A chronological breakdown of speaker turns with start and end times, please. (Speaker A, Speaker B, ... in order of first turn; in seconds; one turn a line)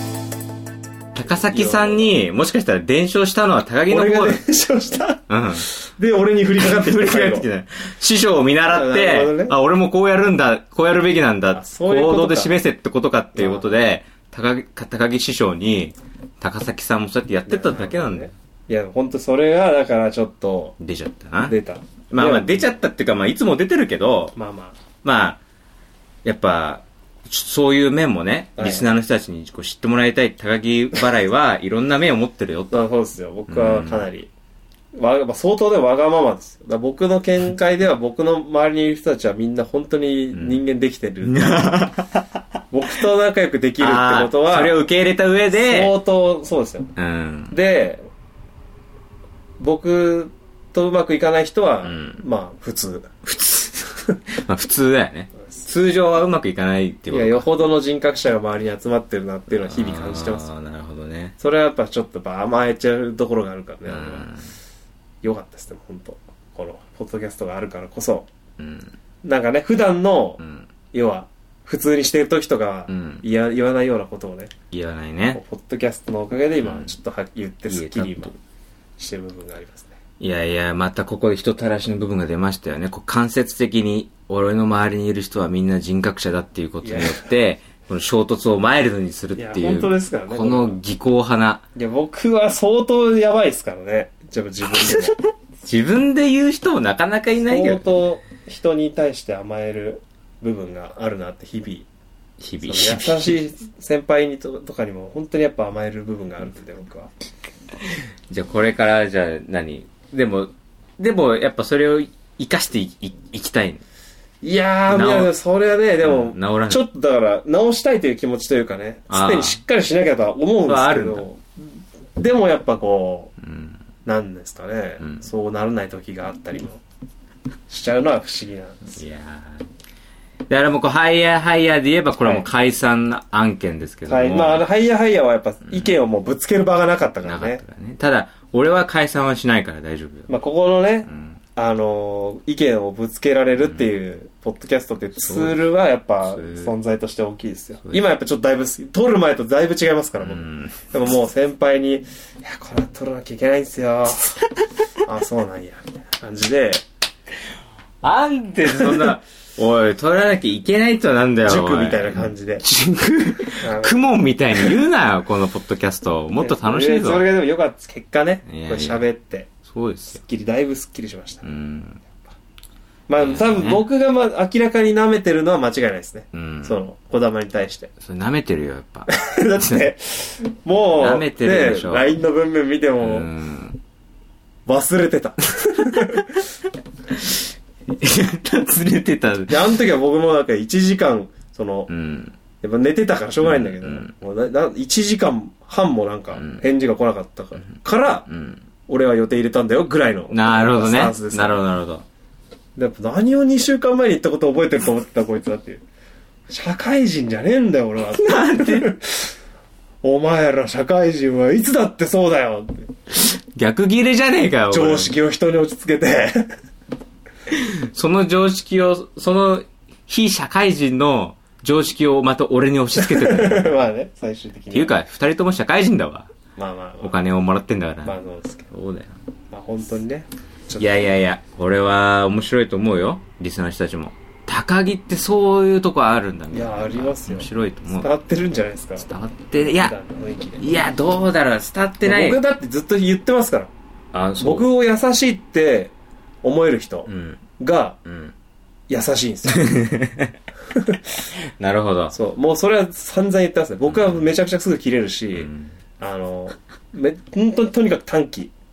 Speaker A: 1.1-4.4
Speaker B: 1.3-2.1
Speaker B: 3.9-7.5
Speaker A: 5.3-5.7
Speaker A: 6.6-18.3
Speaker B: 8.7-9.5
Speaker B: 11.5-12.6
Speaker B: 13.3-13.7
Speaker B: 17.5-20.8
Speaker A: 20.8-21.6
Speaker B: 21.5-22.7
Speaker A: 22.1-24.3
Speaker B: 24.4-24.8
Speaker A: 25.0-25.4
Speaker A: 26.2-32.8
Speaker B: 28.6-28.9
Speaker B: 32.7-34.3
Speaker A: 33.5-34.1
Speaker B: 34.9-41.7
Speaker A: 40.3-40.6
Speaker A: 41.2-42.4
Speaker B: 42.7-44.8
Speaker A: 43.8-45.9
Speaker B: 45.5-46.9
Speaker A: 47.0-47.5
Speaker B: 47.5-48.1
Speaker B: 49.6-53.1
Speaker A: 51.8-52.2
Speaker A: 53.2-57.5
Speaker B: 57.1-60.5
Speaker A: 59.5-61.3
Speaker B: 61.4-64.3
Speaker A: 63.9-64.5
Speaker B: 65.2-68.3
Speaker A: 68.6-68.9
Speaker B: 69.2-70.4
Speaker A: 70.4-70.7
Speaker B: 70.9-74.5
Speaker A: 72.9-73.2
Speaker A: 74.7-75.4
Speaker B: 75.3-78.3
Speaker A: 76.6-76.9
Speaker A: 77.7-78.3
Speaker B: 79.0-80.0
Speaker A: 80.2-91.6
Speaker B: 86.8-87.3
Speaker B: 89.3-90.8
Speaker B: 91.7-95.2
Speaker A: 94.8-97.9
Speaker B: 97.5-101.9
Speaker A: 102.4-103.3
Speaker B: 102.6-107.1
Speaker A: 108.3-113.8
Speaker B: 114.4-123.3
Speaker A: 114.9-115.3
Speaker A: 116.0-116.8
Speaker A: 119.1-119.6
Speaker A: 120.7-121.2
Speaker A: 123.4-123.8
Speaker B: 124.0-126.8
Speaker A: 125.0-125.3
Speaker B: 127.7-129.0
Speaker A: 128.9-129.7
Speaker A: 130.5-134.6
Speaker B: 134.1-137.6
Speaker A: 137.2-140.3
Speaker B: 140.3-154.3
Speaker A: 141.1-141.4
Speaker A: 145.2-145.6
Speaker A: 146.2-146.7
Speaker A: 150.2-150.9
Speaker B: 155.0-156.8
Speaker A: 158.0-167.3
Speaker B: 158.7-159.1
Speaker B: 161.4-162.6
Speaker B: 163.5-164.0
Speaker B: 166.4-169.5
Speaker A: 168.5-169.0
Speaker A: 169.7-170.2
Speaker B: 170.2-171.4
Speaker A: 171.4-172.0
Speaker B: 173.1-177.9
Speaker A: 173.2-173.8
Speaker A: 176.3-176.8
Speaker A: 178.0-179.8
Speaker B: 179.1-183.3
Speaker A: 180.8-182.1
Speaker A: 183.0-183.8
Speaker B: 184.7-186.4
Speaker A: 185.9-186.2
Speaker A: 187.1-189.7
Speaker B: 189.5-191.9
Speaker A: 191.9-192.3
Speaker B: 192.6-198.3
Speaker A: 193.4-194.1
Speaker A: 196.3-196.6
Speaker A: 198.3-198.6
Speaker B: 198.9-201.6
Speaker A: 200.3-202.0
Speaker B: 202.8-205.8
Speaker B: 206.5-209.3
Speaker A: 208.1-208.9
Speaker B: 210.0-212.9
Speaker A: 213.1-215.1
Speaker B: 214.7-216.6
Speaker A: 217.5-223.8
Speaker B: 222.9-224.9
Speaker A: 224.7-226.3
Speaker B: 226.6-227.2
Speaker A: 227.0-229.2
Speaker B: 228.0-228.7
Speaker B: 229.5-231.1
Speaker A: 230.8-238.1
Speaker B: 236.5-239.1
Speaker A: 239.0-239.9
Speaker B: 239.6-240.7
Speaker A: 240.6-242.4
Speaker B: 242.0-243.7
Speaker A: 244.1-244.7
Speaker B: 244.4-248.0
Speaker A: 247.1-247.4
Speaker A: 248.0-248.3
Speaker B: 248.9-249.7
Speaker A: 249.5-250.3
Speaker B: 250.7-251.0
Speaker A: 251.6-252.2
Speaker B: 252.1-258.5
Speaker A: 253.9-254.2
Speaker A: 255.3-255.7